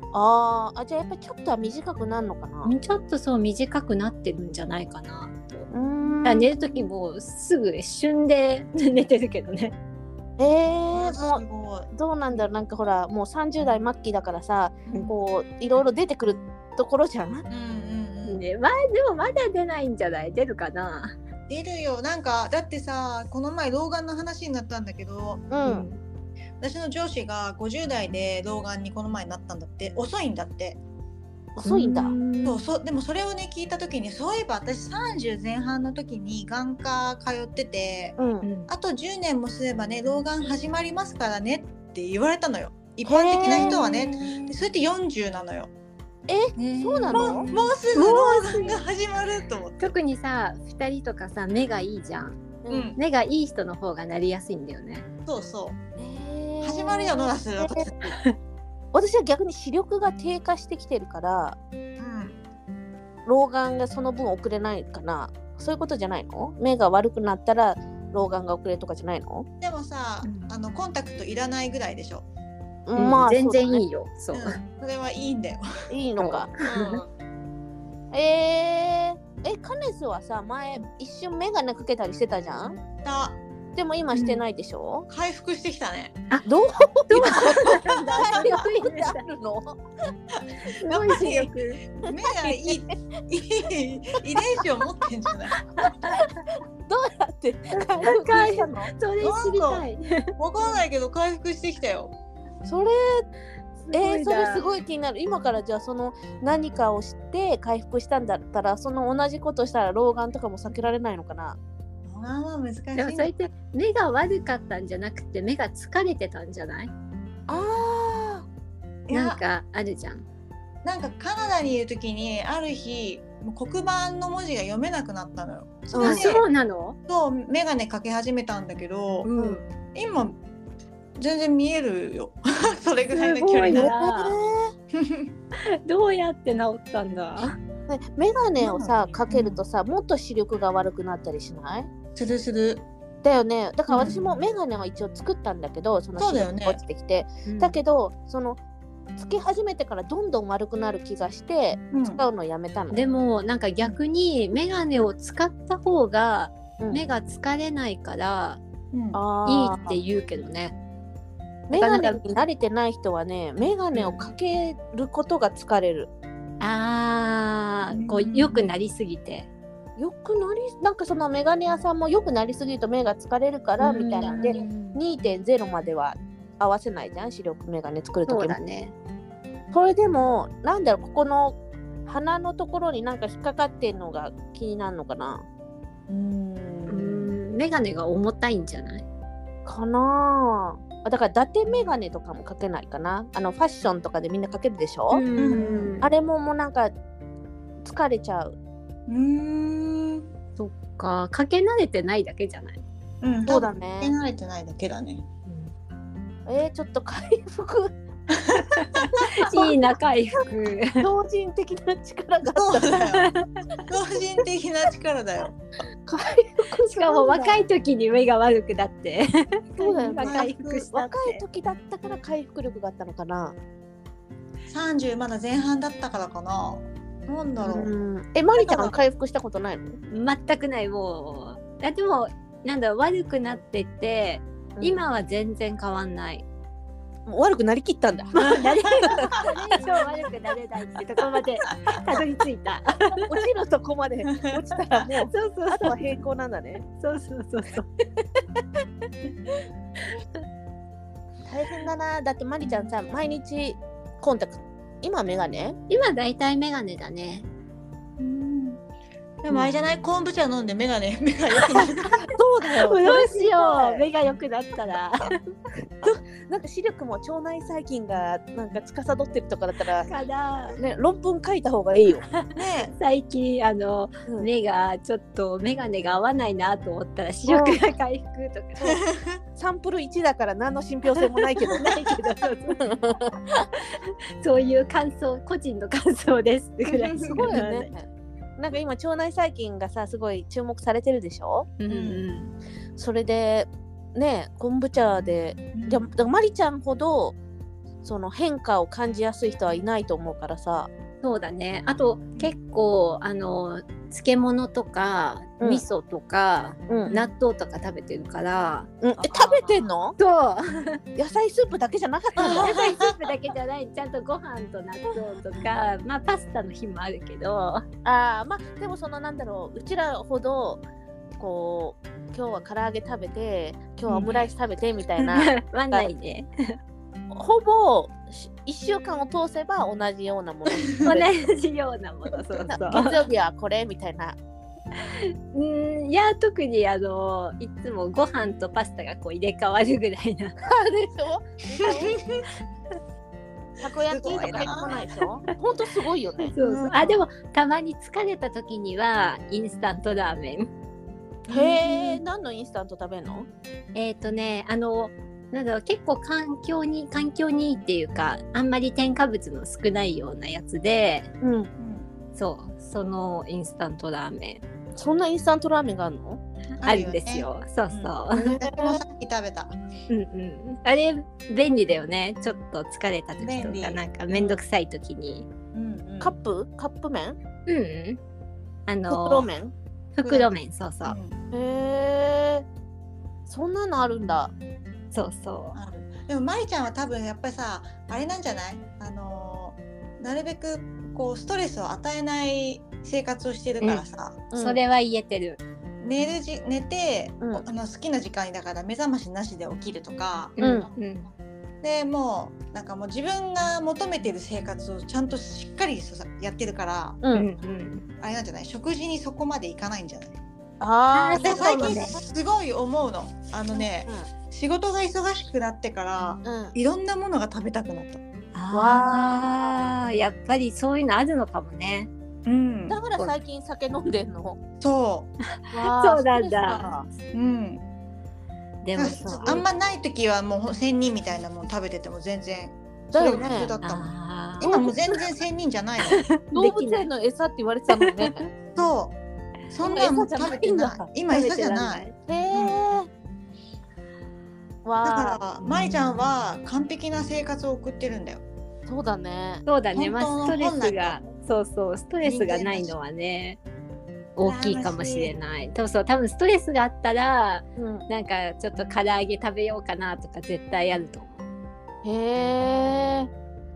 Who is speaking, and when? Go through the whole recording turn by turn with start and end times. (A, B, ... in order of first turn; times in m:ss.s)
0:00.1-0:02.7 A
0:02.6-0:05.7 B
0:05.7-0:06.9 A
0:06.2-0:09.8 B
0:10.4-0:17.5 A
0:10.9-0:11.9 C
0:17.5-0:18.4 C
0:18.3-0:21.2 B
0:21.5-0:25.4 C
0:25.5-0:25.9 A
0:25.6-0:26.0 B
0:26.6-0:30.8 C
0:31.6-0:32.1 A
0:31.6-0:32.6 B
0:32.4-0:38.2 C
0:38.2-0:38.4 A
0:38.4-0:38.7 B
0:38.7-0:45.7 C
0:43.0-0:43.8 A
0:43.4-0:44.5 B
0:46.3-0:47.5 A
0:46.6-0:48.8 B
0:47.1-0:49.9 C
0:49.8-0:52.4 B
0:52.6-0:52.9 A
0:52.7-0:53.0 C
0:53.0-0:55.1 B
0:55.3-0:55.8 C
0:56.0-0:58.1 A
0:56.6-0:57.9 C
0:58.9-1:01.6 A
1:02.0-1:02.4 C
1:03.3-1:09.5 A
1:09.6-1:12.3 C
1:10.2-1:10.5 B
1:12.9-1:13.8 A
1:13.0-1:14.6 B
1:14.3-1:15.9 C
1:15.9-1:16.5 A
1:16.2-1:17.0 B
1:16.6-1:17.1 C
1:18.1-1:22.8 A
1:23.0-1:23.4 C
1:23.8-1:25.1 A
1:24.1-1:24.4 B
1:25.1-1:26.2 C
1:26.4-1:29.8 A
1:27.1-1:29.2 B
1:27.3-1:28.5 C
1:30.6-1:31.8 B
1:30.8-1:35.6 C
1:32.4-1:32.8 A
1:35.8-1:36.3 B
1:36.9-1:38.9 A
1:37.7-1:40.3 B
1:39.2-1:39.8 C
1:40.4-1:42.1 C
1:42.6-1:43.2 A
1:43.8-1:44.6 B
1:43.9-1:51.6 A
1:52.0-1:53.3 C
1:53.0-1:56.9 B
1:57.5-1:58.5 A
1:59.1-1:59.4 C
1:59.1-2:00.3 B
2:00.8-2:06.4 C
2:05.9-2:06.4 A
2:06.0-2:07.0 B
2:07.1-2:09.3 C
2:09.2-2:09.6 B
2:09.9-2:10.4 C
2:11.2-2:13.9 C
2:13.1-2:14.4 B
2:13.7-2:14.7 A
2:14.9-2:15.3 C
2:15.8-2:17.6 B
2:17.9-2:21.9 A
2:18.6-2:19.6 C
2:22.2-2:22.8 C
2:23.2-2:28.6 A
2:23.9-2:24.4 C
2:26.2-2:26.8 C
2:27.5-2:27.8 B
2:29.2-2:33.0 A
2:31.9-2:32.2 C
2:32.9-2:38.6 B
2:38.9-2:39.2 C
2:39.1-2:40.0 A
2:39.5-2:40.8 B
2:41.7-2:46.1 A
2:41.7-2:42.4 B
2:43.9-2:44.2 B
2:46.6-2:49.5 B
2:47.9-2:48.7 C
2:50.0-2:58.6 A
2:53.8-2:55.0 B
2:58.3-2:58.9 B
2:59.7-3:05.4 A
3:06.1-3:07.3 C
3:06.9-3:09.0 B
3:09.7-3:15.2 A
3:15.1-3:16.1 B
3:15.4-3:15.9 C
3:16.0-3:16.9 A
3:17.8-3:18.6 A
3:19.1-3:20.3 C
3:20.6-3:22.8 B
3:23.2-3:25.2 C
3:23.5-3:24.1 A
3:25.5-3:25.7 B
3:26.5-3:28.0 A
3:28.3-3:29.5 C
3:28.7-3:31.0 B
3:31.0-3:33.1 A
3:32.6-3:33.3 C
3:33.1-3:33.6 B
3:33.9-3:35.6 C
3:36.1-3:37.6 A
3:36.9-3:41.4 B
3:39.8-3:43.6 A
3:40.2-3:40.8 C
3:44.7-3:47.9 C
3:47.6-3:50.0 A
3:48.6-3:48.9 C
3:50.1-3:56.4 B
3:54.8-3:55.0 A
3:57.3-3:59.5 A
3:58.4-4:03.3 B
4:03.3-4:06.8 A
4:05.3-4:06.0 B
4:07.0-4:07.9 B
4:11.5-4:15.8 A
4:15.9-4:17.5 B
4:18.2-4:18.8 C
4:19.4-4:22.3 C
4:22.3-4:24.0 A
4:22.8-4:25.4 B
4:26.0-4:30.1 A
4:30.1-4:30.8 B
4:30.8-4:32.2 A
4:32.4-4:39.0 B
4:32.6-4:32.9 C
4:37.5-4:37.8 A
4:38.8-4:39.4 C
4:39.6-4:43.7 A
4:41.4-4:42.8 B
4:43.8-4:47.9 B
4:46.9-4:47.6 C
4:47.3-4:51.7 A
4:51.8-4:52.5 B
4:51.9-4:52.3 C
4:53.0-4:57.4 A
4:55.7-4:56.1 C
4:58.0-5:00.9 A
5:01.2-5:11.0 B
5:06.9-5:07.2 A
5:09.0-5:10.2 A
5:11.2-5:12.8 A
5:12.4-5:17.8 B
5:12.4-5:13.2 C
5:18.0-5:20.8 A
5:21.4-5:26.1 A
5:24.1-5:24.5 B
5:25.2-5:26.8 B
5:27.3-5:31.3 A
5:31.0-5:33.2 B
5:32.5-5:34.4 A
5:35.0-5:40.6 B
5:40.6-5:42.2 A
5:41.8-5:42.4 C
5:43.8-5:46.5 A
5:44.1-5:45.0 C
5:46.5-5:50.7 B
5:46.6-5:47.2 C
5:51.5-5:52.2 C
5:51.5-5:53.5 A
5:54.0-6:01.3 B
6:01.4-6:01.7 A
6:01.8-6:02.1 C
6:02.4-6:04.6 B
6:05.0-6:06.4 A
6:06.8-6:09.8 C
6:06.8-6:08.6 B
6:08.4-6:09.0 A
6:10.1-6:15.5 B
6:13.4-6:14.6 C
6:15.7-6:16.4 C
6:16.2-6:17.4 A
6:17.7-6:18.2 B
6:18.9-6:19.5 B
6:19.1-6:19.7 A
6:20.2-6:21.2 B
6:20.2-6:21.4 C
6:21.5-6:22.7 A
6:23.5-6:24.5 A
6:25.1-6:25.8 B
6:25.8-6:34.4 C
6:33.8-6:35.6 B
6:34.5-6:34.8 A
6:36.0-6:40.6 C
6:40.6-6:41.3 B
6:40.6-6:40.9 A
6:41.8-6:47.2 C
6:47.2-6:47.5 A
6:47.3-6:48.0 B
6:48.2-6:50.4 C
6:50.8-6:52.2 A
6:51.1-6:52.2 B
6:51.4-6:58.2 C
6:56.4-6:56.7 A
6:58.5-7:02.1 B
6:58.7-6:59.6 A
7:02.5-7:03.0 C
7:02.9-7:04.6 A
7:04.8-7:05.3 C
7:05.7-7:06.9 B
7:05.7-7:07.1 A
7:07.3-7:07.8 C
7:08.8-7:09.6 B
7:09.0-7:16.3 C
7:13.1-7:13.7 A
7:13.8-7:14.8 B
7:14.6-7:15.0 A
7:16.0-7:17.1 B
7:16.5-7:18.4 A
7:17.9-7:18.5 B
7:18.8-7:19.2 C
7:19.7-7:22.8 C
7:19.8-7:21.1 A
7:21.3-7:22.2 B
7:22.3-7:23.1 A
7:24.8-7:25.4 A
7:25.0-7:28.4 C
7:25.6-7:26.2 B
7:28.9-7:29.6 A
7:29.7-7:33.6 B
7:29.9-7:31.2 C
7:32.2-7:32.9 C
7:34.4-7:41.4 B
7:34.4-7:35.3 C
7:37.8-7:38.1 A
7:42.0-7:43.3 A